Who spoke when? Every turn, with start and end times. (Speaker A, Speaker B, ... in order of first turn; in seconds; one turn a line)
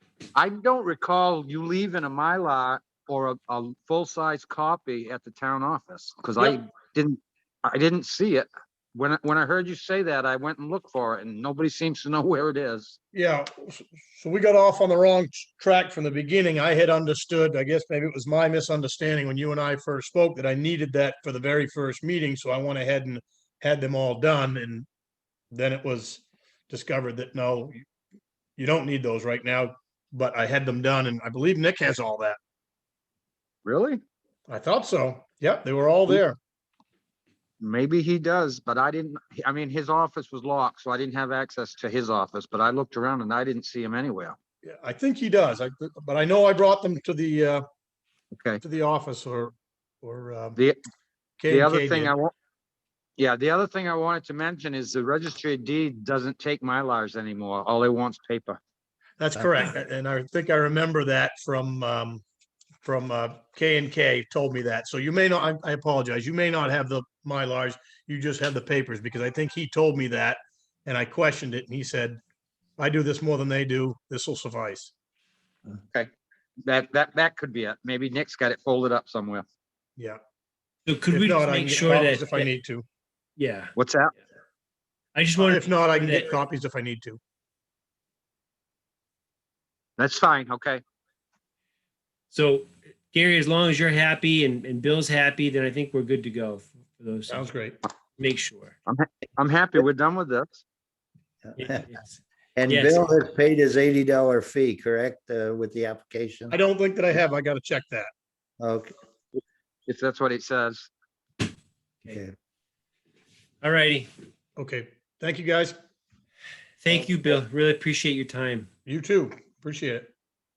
Speaker A: 0.3-13.0
Speaker B: 13.1-24.9
Speaker B: 25.5-27.8
Speaker B: 28.6-32.4
Speaker A: 33.6-34.0
Speaker B: 34.5-36.4
Speaker A: 37.6-44.4
Speaker B: 44.6-47.6
Speaker A: 48.3-48.6
Speaker B: 48.6-50.6
Speaker B: 51.4-52.1
Speaker A: 51.5-52.3
Speaker A: 53.2-58.6
Speaker B: 59.2-62.2
Speaker B: 62.8-72.2
Speaker B: 72.8-74.9
Speaker A: 76.6-79.4
Speaker C: 80.9-82.5
Speaker B: 81.1-82.8
Speaker C: 83.4-83.7
Speaker A: 83.8-84.1
Speaker C: 85.1-86.4
Speaker B: 85.4-87.2
Speaker A: 90.0-90.8
Speaker C: 92.3-97.4
Speaker B: 97.3-97.8
Speaker C: 98.2-98.8
Speaker A: 98.9-100.6
Speaker D: 101.4-101.8
Speaker C: 101.5-103.1
Speaker D: 102.6-106.6
Speaker B: 106.5-108.1
Speaker D: 108.6-108.9
Speaker A: 109.9-110.9
Speaker C: 113.6-114.1
Speaker B: 114.6-115.8
Speaker C: 116.8-118.7
Speaker B: 118.8-120.1